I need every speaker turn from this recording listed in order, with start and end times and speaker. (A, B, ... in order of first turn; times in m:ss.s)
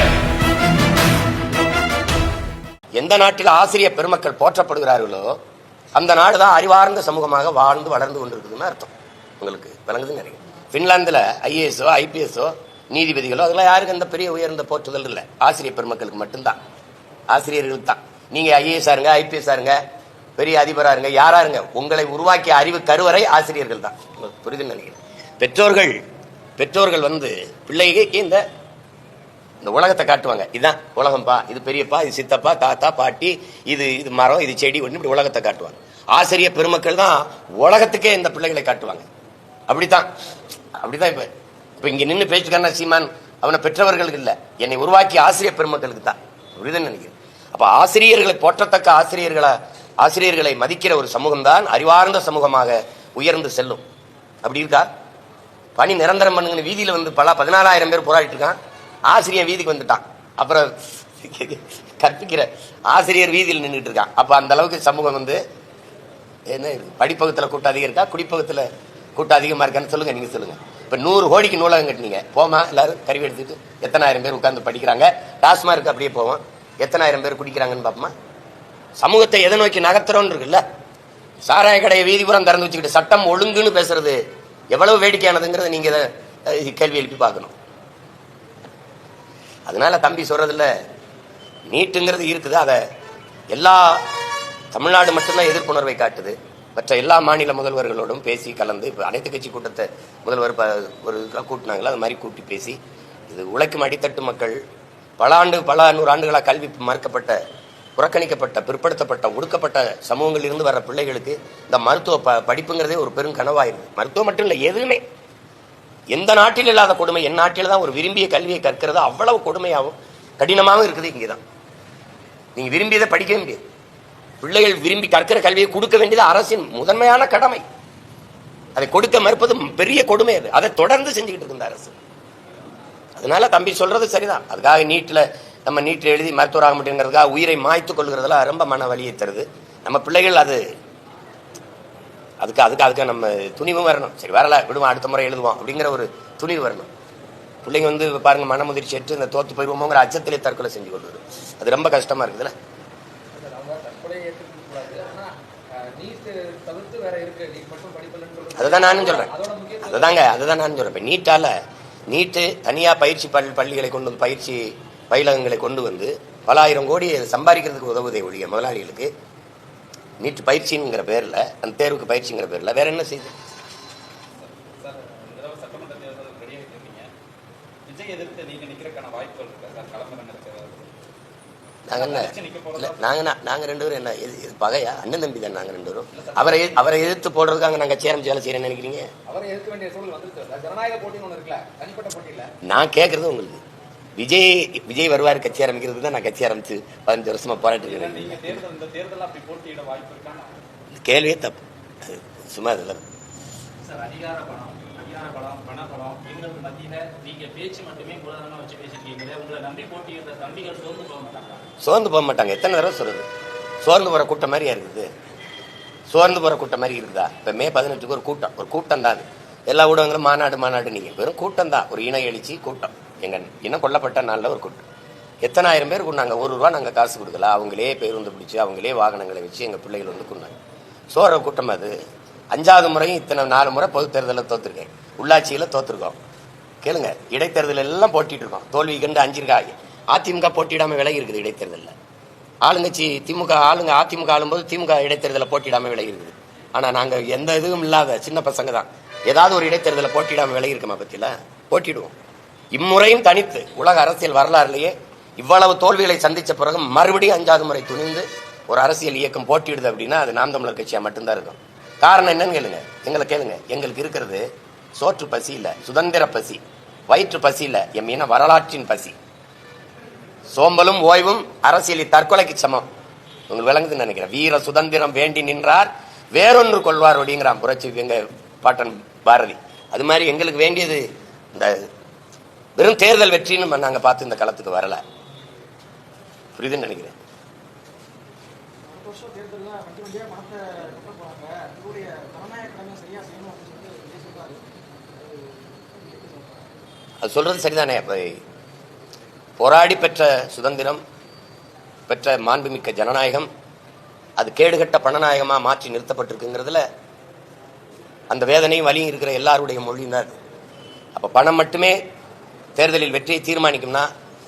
0:02.9-0:05.4 A
0:05.9-0:16.6 A
0:17.3-0:19.8 A
0:20.4-0:26.0 A
0:26.6-0:28.4 A
0:29.6-0:39.0 A
0:39.7-0:40.1 A
0:40.8-0:53.8 A
0:54.4-0:54.9 A
0:55.8-1:05.4 A
1:06.5-1:18.1 A
1:19.0-1:20.6 A
1:21.4-1:24.2 A
1:24.7-1:27.5 A
1:29.6-1:30.7 A
1:31.7-1:32.8 A
1:33.5-1:34.1 A
1:34.7-1:42.8 A
1:43.3-1:44.6 A
1:45.2-1:47.4 A
1:48.0-1:55.0 A
1:56.1-2:01.4 A
2:02.5-2:03.6 A
2:04.4-2:07.6 A
2:08.8-2:11.9 A
2:13.2-2:20.6 A
2:22.4-2:26.9 A
2:27.6-2:32.5 A
2:33.3-2:40.2 B
2:38.6-2:39.3 A
2:39.8-2:41.6 A
2:42.1-2:49.1 A
2:50.2-2:53.3 A
2:54.7-2:57.1 C
2:55.4-2:56.6 D
2:57.9-3:00.6 D
3:00.4-3:00.7 C
3:01.9-3:09.1 A
3:02.3-3:02.6 C
3:06.2-3:06.8 B
3:09.3-3:12.5 B
3:12.6-3:13.6 A
3:14.2-3:18.6 A
3:17.9-3:20.6 C
3:18.8-3:19.4 D
3:20.9-3:23.1 A
3:23.8-3:31.7 C
3:31.8-3:33.2 A
3:33.8-3:35.1 A
3:36.1-3:44.8 A
3:45.4-3:50.5 A
3:51.1-3:51.9 A
3:52.5-3:56.2 A
3:56.8-4:01.9 A
4:02.6-4:12.1 A
4:12.7-4:24.4 A
4:25.0-4:29.1 A
4:30.5-4:32.9 A
4:33.5-4:41.8 A
4:42.8-4:45.0 A
4:46.6-4:47.2 A
4:48.9-4:54.7 E
4:56.0-4:56.5 E
4:57.2-4:58.4 A
4:59.6-5:01.0 A
5:02.1-5:03.5 A
5:04.4-5:06.8 A
5:08.3-5:10.3 A
5:11.1-5:12.0 A
5:12.8-5:14.1 A